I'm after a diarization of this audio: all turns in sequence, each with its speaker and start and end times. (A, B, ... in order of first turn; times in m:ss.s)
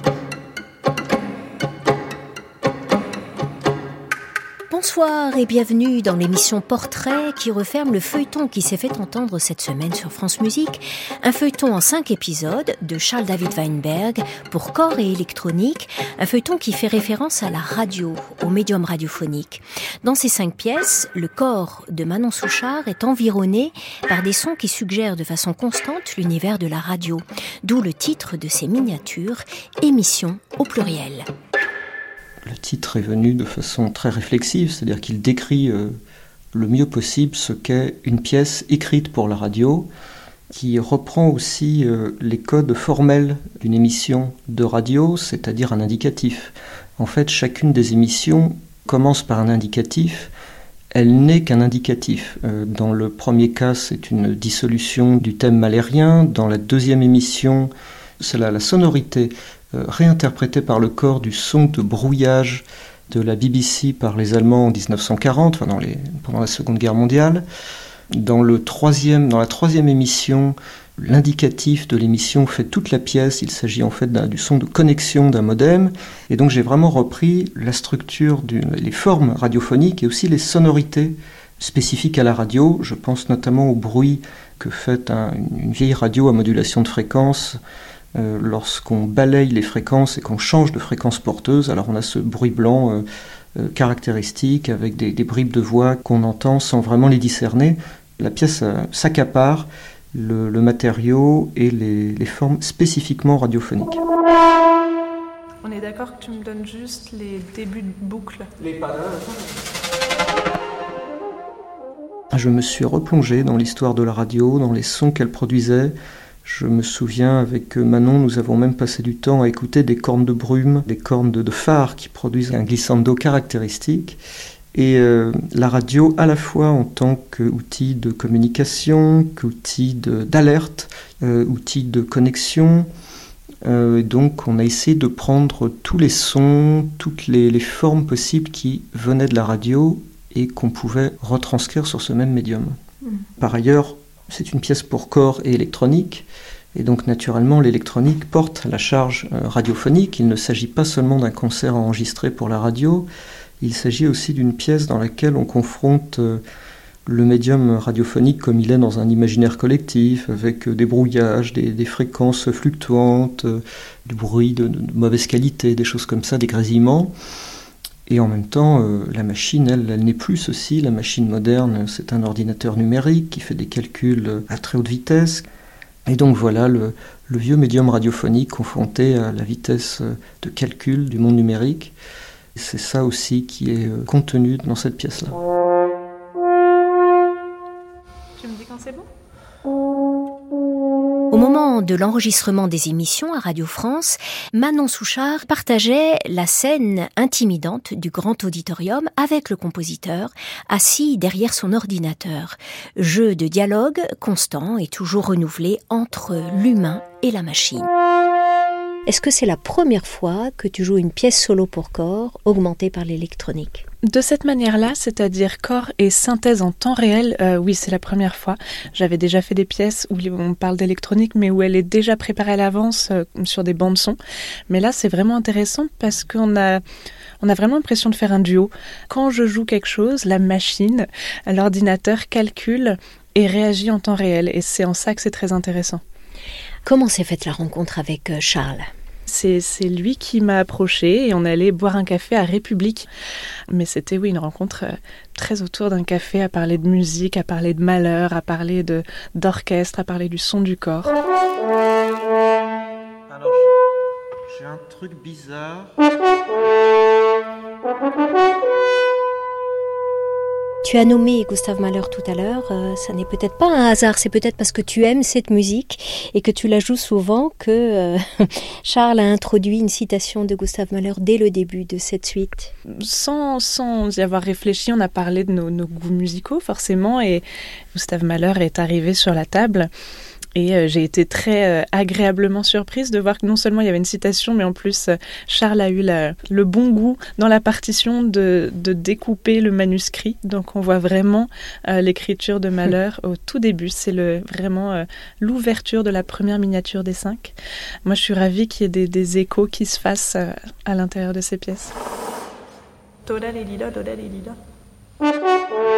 0:04.7-0:31.3 A
0:32.4-0:36.0 B
0:36.5-0:39.9 B
0:40.5-0:50.3 B
0:50.9-1:07.4 B
1:08.1-1:27.6 B
1:28.2-1:44.0 B
1:45.6-1:49.1 C
1:52.3-2:04.2 B
2:04.7-2:12.9 B
2:13.6-2:22.8 B
2:23.4-2:33.1 B
2:33.6-2:36.4 B
2:37.1-2:47.1 B
2:48.1-2:55.5 B
2:56.1-3:02.0 B
3:02.6-3:05.4 B
3:08.4-3:09.1 C
3:11.3-3:27.9 A
3:29.1-3:33.8 A
3:34.0-3:44.2 C
3:44.7-3:46.8 C
3:47.4-3:56.0 C
3:56.8-3:58.9 A
3:59.3-4:03.1 C
4:03.7-4:11.1 C
4:13.3-4:13.7 B
4:14.5-4:16.0 B
4:20.8-4:32.7 A
4:32.9-4:39.9 C
4:40.6-5:01.9 C
5:03.3-5:04.6 C